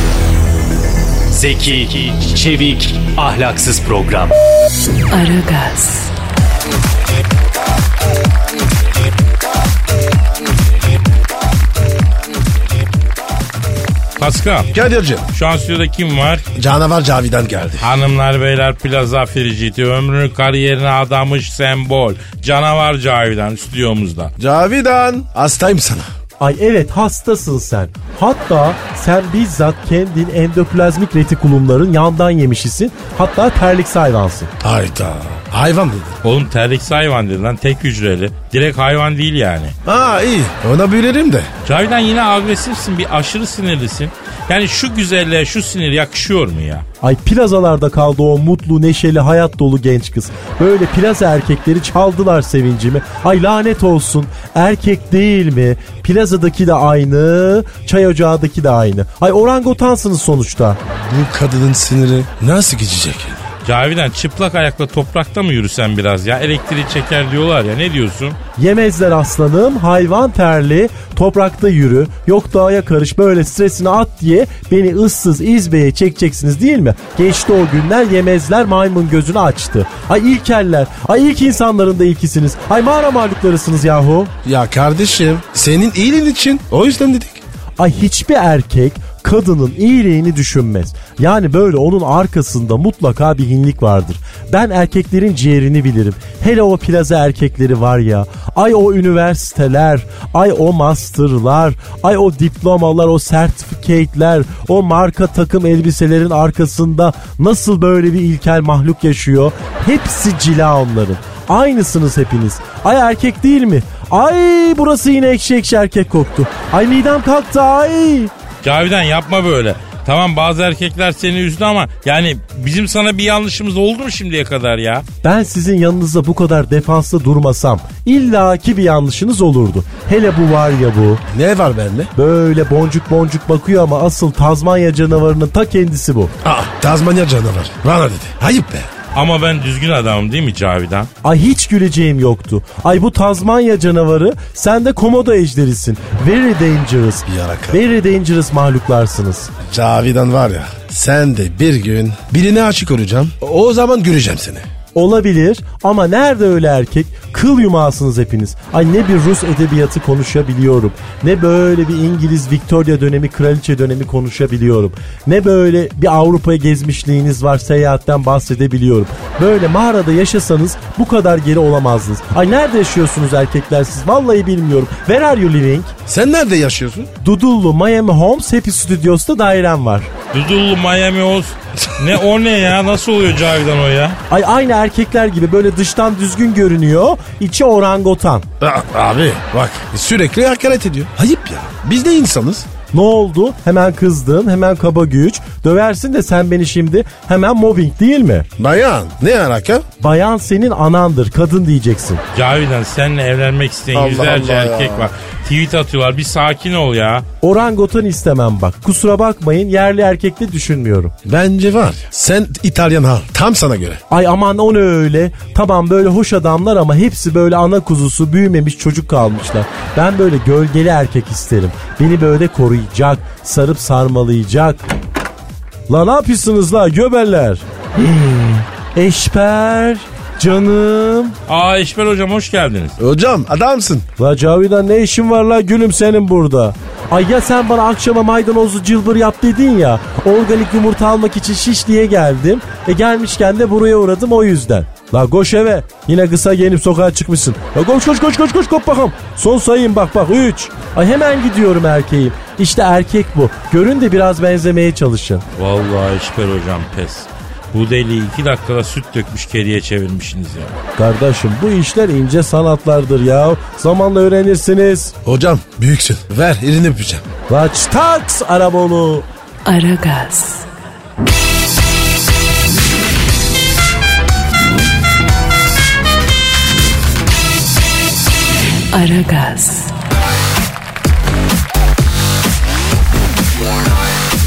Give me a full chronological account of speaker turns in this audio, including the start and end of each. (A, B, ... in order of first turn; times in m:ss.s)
0:01.3-0:04.3 A
0:05.1-0:06.1 B
0:14.2-0:14.7 C
0:14.7-0:15.3 D
0:15.3-0:16.4 C
0:16.6-0:17.9 D
0:17.8-0:24.3 C
0:24.4-0:26.1 D
0:26.4-0:34.5 E
0:34.6-0:36.2 D
0:36.2-0:39.8 C
0:39.8-0:41.5 D
0:41.6-0:46.8 C
0:47.0-1:00.8 E
1:00.9-1:03.4 D
1:03.6-1:08.4 C
1:08.6-1:24.3 E
1:24.4-1:27.4 D
1:27.8-1:58.3 E
1:58.6-2:05.1 C
2:05.2-2:11.2 E
2:11.3-2:12.1 D
2:12.2-2:16.3 E
2:16.4-2:18.9 D
2:19.1-2:21.1 C
2:21.2-2:29.5 E
2:27.3-2:27.8 D
2:29.6-2:34.6 D
2:35.0-2:55.9 E
2:56.1-2:57.1 D
2:57.2-3:00.1 E
3:00.3-3:04.2 C
3:04.3-3:08.4 E
3:08.6-3:12.7 D
3:12.9-3:18.5 E
3:18.6-3:19.8 D
3:20.0-3:22.2 E
3:22.3-3:27.3 C
3:23.9-3:25.1 D
3:27.4-3:31.1 E
3:31.2-3:34.0 D
3:34.1-3:44.8 E
3:45.9-3:51.4 E
3:51.5-3:53.0 C
3:53.0-3:54.1 D
3:54.2-4:15.4 E
4:15.6-4:20.8 C
4:21.0-4:25.2 E
4:25.2-4:27.2 D
4:27.5-4:29.3 E
4:29.6-4:30.7 B
4:38.9-4:39.9 B